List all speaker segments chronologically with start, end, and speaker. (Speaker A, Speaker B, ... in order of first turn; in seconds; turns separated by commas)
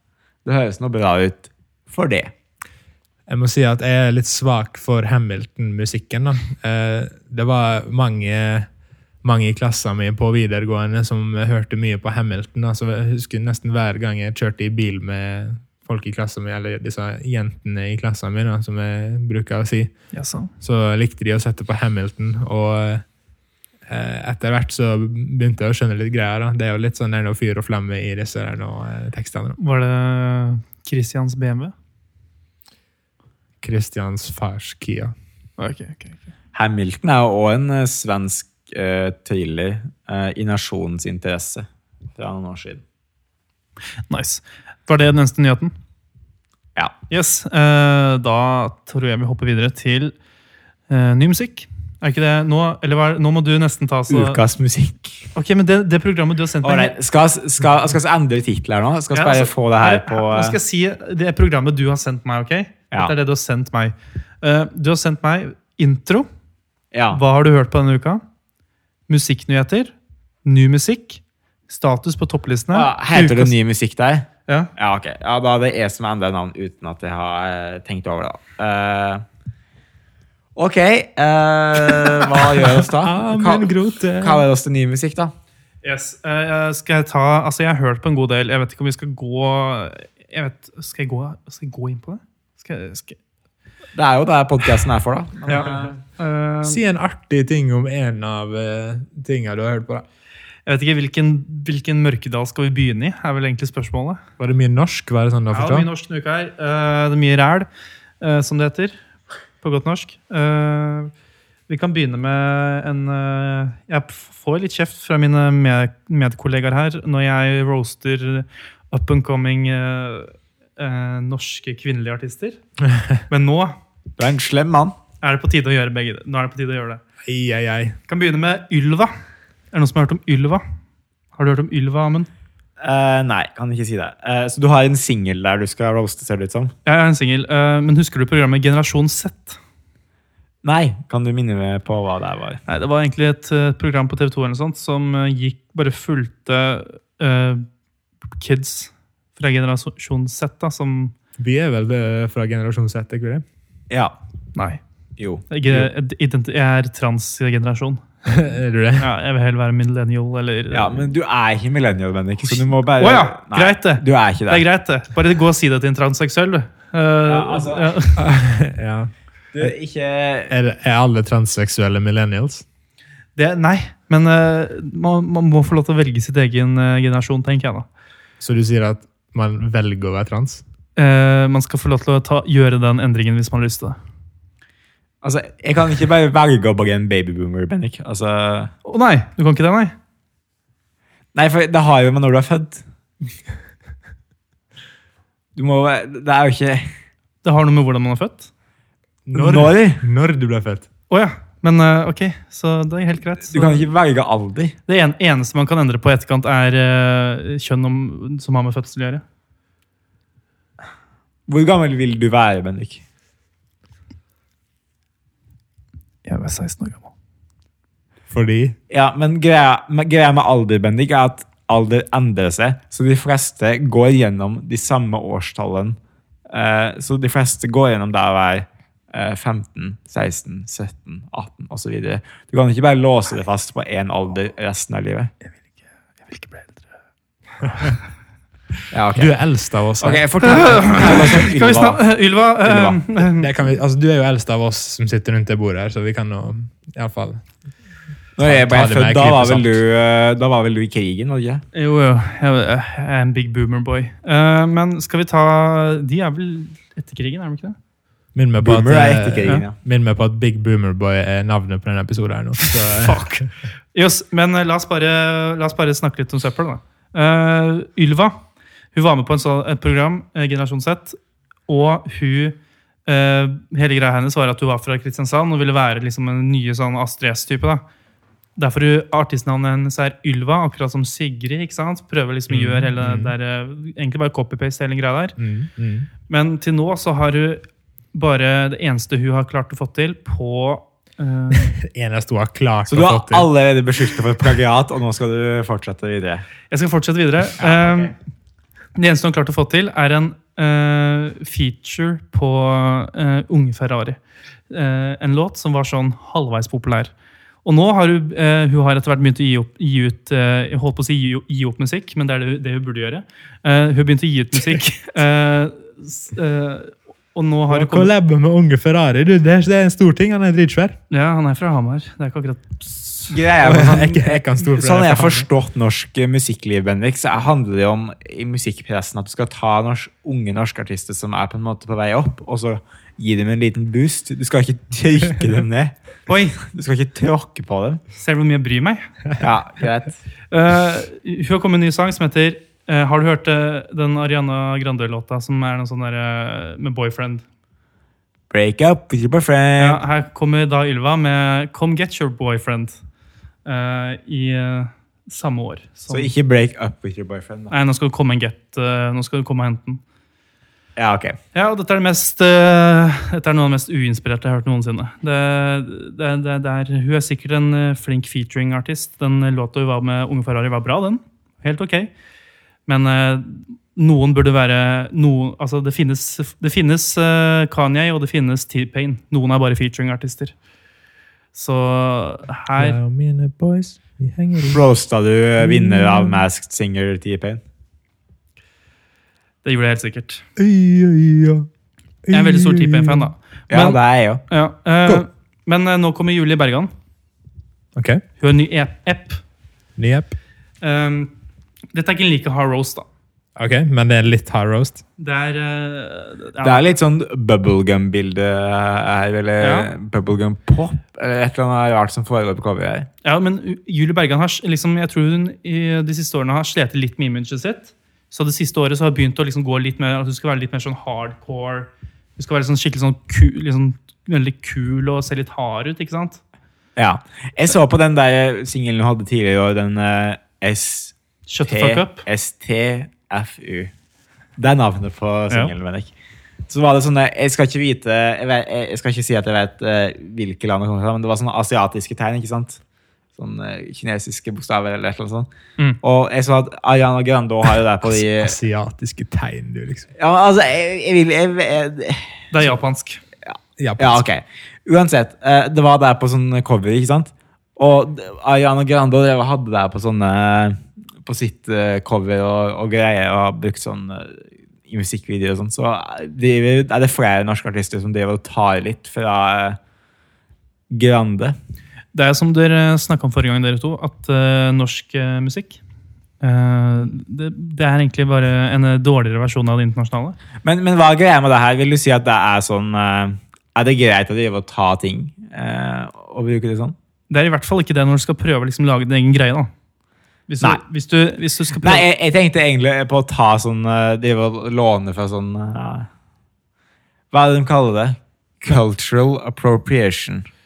Speaker A: 0.5-2.3, Speaker B: 3.3-8.7, Speaker B: 9.2-19.9, Speaker C: 20.1-20.5, Speaker B: 20.6-23.1, Speaker B: 23.9-29.6, Speaker C: 29.6-31.7, Speaker B: 33.6-35.1, Speaker C: 35.6-36.2, Speaker A: 36.5-42.8, Speaker C: 44.1-45.7, Speaker C: 47.1-50.1, Speaker C: 50.9-54.4, Speaker A: 54.1-55.3, Speaker C: 55.4-56.9, Speaker A: 56.6-60.6, Speaker C: 59.1-66.3, Speaker A: 66.9-67.2, Speaker C: 67.1-68.2, Speaker C: 69.1-69.9, Speaker C: 70.5-73.5, Speaker A: 72.7-79.2, Speaker A: 80.6-85.3, Speaker B: 82.9-84.4, Speaker C: 85.8-93.2, Speaker A: 94.0-96.0, Speaker C: 95.5-96.8, Speaker B: 96.6-100.0, Speaker C: 100.7-104.2, Speaker B: 104.4-105.9, Speaker C: 105.5-107.7, Speaker C: 108.2-108.9, Speaker C: 109.6-111.1, Speaker C: 111.7-122.6, Speaker B: 122.8-123.2, Speaker C: 123.3-123.8, Speaker A: 124.2-125.0, Speaker C: 125.2-127.0, Speaker B: 127.2-128.0, Speaker C: 128.1-129.1, Speaker C: 129.7-130.6, Speaker C: 131.3-132.3, Speaker A: 132.8-136.7, Speaker C: 136.8-139.6, Speaker A: 140.6-142.6, Speaker C: 142.7-147.7, Speaker C: 148.4-151.1, Speaker B: 151.4-153.4, Speaker A: 153.9-154.2, Speaker C: 154.6-154.8, Speaker A: 155.2-155.5, Speaker C: 155.5-158.0, Speaker B: 158.2-159.1, Speaker C: 159.0-161.1, Speaker A: 160.7-164.6, Speaker C: 162.5-168.2, Speaker A: 167.2-167.9, Speaker B: 168.2-169.7, Speaker A: 169.5-170.5, Speaker B: 170.5-172.7, Speaker C: 173.4-177.8, Speaker B: 178.4-180.6, Speaker C: 181.0-184.0, Speaker A: 185.2-188.7, Speaker C: 188.8-189.9, Speaker A: 191.3-192.8, Speaker A: 195.6-196.9, Speaker C: 197.4-198.5, Speaker B: 199.3-200.9, Speaker A: 199.3-200.0, Speaker C: 201.1-203.9, Speaker A: 203.5-204.8, Speaker C: 204.9-209.2, Speaker A: 211.5-213.0, Speaker C: 216.2-217.1, Speaker B: 218.3-218.8, Speaker A: 218.9-226.0, Speaker A: 226.5-235.3, Speaker C: 236.3-236.7, Speaker A: 238.9-239.3, Speaker B: 239.2-240.4, Speaker A: 240.0-242.0, Speaker C: 240.4-243.5, Speaker A: 242.6-243.0, Speaker B: 243.3-247.4, Speaker A: 248.4-251.6, Speaker B: 248.4-249.8, Speaker C: 251.7-257.8, Speaker B: 258.4-263.5, Speaker A: 258.6-259.8, Speaker C: 262.6-268.4, Speaker C: 268.9-271.2, Speaker C: 271.7-277.8, Speaker C: 278.6-285.4, Speaker B: 282.5-283.3, Speaker B: 285.4-286.1, Speaker C: 286.3-291.7, Speaker B: 291.5-293.5, Speaker A: 292.9-296.5, Speaker C: 296.7-298.1, Speaker A: 297.6-298.1, Speaker C: 299.0-304.2, Speaker C: 304.7-307.1, Speaker C: 307.6-318.1, Speaker B: 317.7-321.0, Speaker C: 321.1-323.4, Speaker A: 323.3-336.0, Speaker B: 323.6-325.5, Speaker C: 336.3-336.6, Speaker A: 336.6-338.0, Speaker C: 338.2-339.1, Speaker A: 339.4-340.2, Speaker C: 340.5-347.4, Speaker A: 348.5-350.0, Speaker C: 349.8-353.0, Speaker C: 353.6-356.3, Speaker A: 356.1-357.7, Speaker C: 357.7-360.0, Speaker A: 361.0-361.4, Speaker C: 361.5-372.1, Speaker C: 372.9-380.5, Speaker C: 381.5-383.0, Speaker B: 382.8-384.8, Speaker A: 384.7-387.6, Speaker B: 385.6-386.4, Speaker C: 389.6-390.4, Speaker B: 390.6-391.7, Speaker B: 392.2-393.9, Speaker C: 392.3-393.9, Speaker A: 393.7-394.4, Speaker C: 394.5-396.9, Speaker B: 398.0-398.2, Speaker C: 398.4-399.4, Speaker B: 400.0-400.3, Speaker C: 400.8-401.3, Speaker C: 401.9-403.1, Speaker B: 403.6-405.0, Speaker C: 405.2-406.9, Speaker A: 406.6-413.1, Speaker C: 409.6-409.9, Speaker C: 413.2-426.4, Speaker A: 427.0-431.1, Speaker C: 431.5-432.2, Speaker A: 431.7-433.9, Speaker A: 434.6-436.1, Speaker A: 436.7-442.8, Speaker A: 443.4-445.5, Speaker A: 446.0-448.6, Speaker B: 448.0-450.1, Speaker A: 450.2-452.4, Speaker C: 452.5-453.2, Speaker A: 453.5-469.8, Speaker B: 453.8-454.2, Speaker A: 470.9-471.6, Speaker C: 472.1-475.8, Speaker C: 476.4-480.4, Speaker A: 480.6-487.0, Speaker C: 487.3-489.7, Speaker C: 490.5-492.1, Speaker A: 491.8-496.1, Speaker A: 497.3-500.5